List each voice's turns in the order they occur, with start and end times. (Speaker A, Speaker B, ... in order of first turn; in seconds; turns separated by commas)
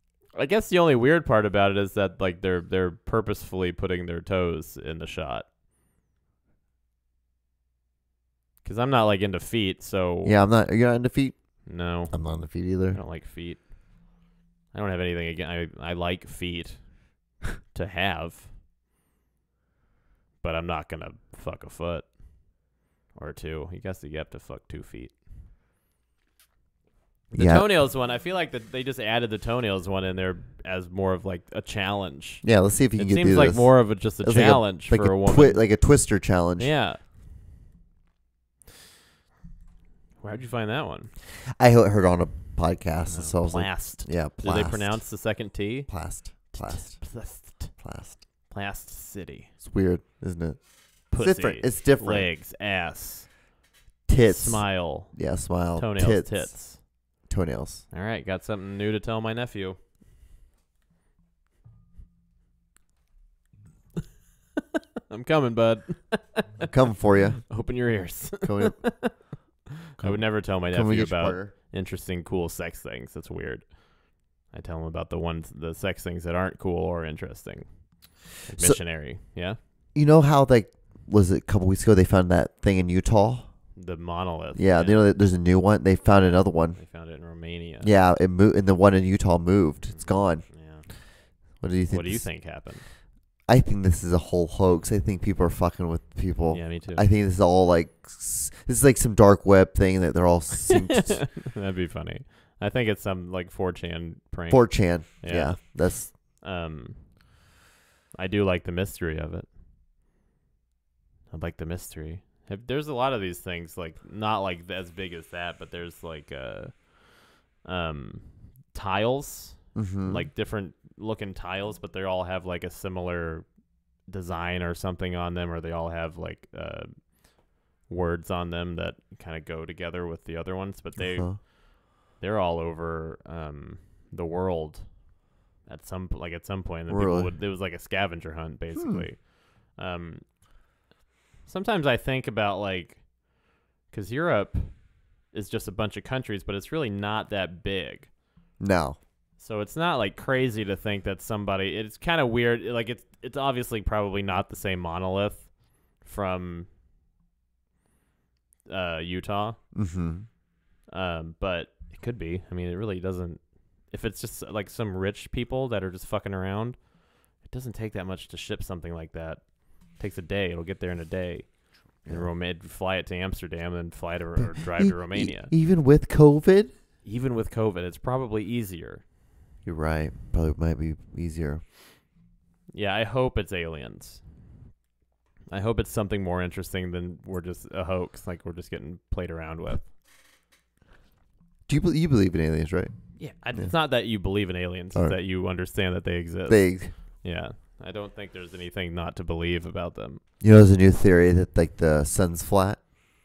Speaker A: 0.3-5.5, Speaker A: 8.6-10.4, Speaker B: 10.2-13.0, Speaker A: 11.7-14.2, Speaker A: 14.7-18.5, Speaker A: 20.4-25.2, Speaker A: 27.3-36.1, Speaker B: 27.3-27.7, Speaker B: 32.4-36.8, Speaker A: 36.6-37.0, Speaker A: 40.2-41.1, Speaker B: 41.5-45.1, Speaker A: 43.1-47.8, Speaker B: 45.9-48.2, Speaker A: 48.4-49.5, Speaker B: 49.6-52.3, Speaker A: 51.1-53.3, Speaker B: 54.1-57.9, Speaker A: 54.3-56.8, Speaker A: 57.9-59.8, Speaker A: 65.1-66.7, Speaker B: 66.7-67.5, Speaker A: 67.5-69.3, Speaker B: 68.4-69.3, Speaker A: 69.9-79.6, Speaker B: 70.0-71.5, Speaker B: 78.6-78.8, Speaker B: 79.9-83.8, Speaker A: 83.8-85.1, Speaker B: 84.5-87.1, Speaker A: 86.8-87.9, Speaker B: 87.8-91.0, Speaker A: 89.9-92.9, Speaker B: 91.6-101.3, Speaker A: 96.5-97.1, Speaker A: 100.7-107.4, Speaker B: 104.5-106.1, Speaker A: 108.2-109.5, Speaker A: 111.3-140.4, Speaker B: 119.8-120.3, Speaker B: 131.0-131.4, Speaker B: 136.9-137.3, Speaker B: 138.8-139.1, Speaker A: 141.5-148.1, Speaker B: 148.6-149.0, Speaker A: 149.4-156.7, Speaker A: 158.7-159.6, Speaker B: 159.7-160.3, Speaker A: 160.9-175.5, Speaker B: 174.4-176.7, Speaker A: 177.0-179.0, Speaker B: 179.6-181.6, Speaker A: 182.7-184.4, Speaker A: 185.5-189.9, Speaker B: 191.7-193.7, Speaker A: 193.2-200.2, Speaker B: 196.5-196.9, Speaker B: 200.4-202.8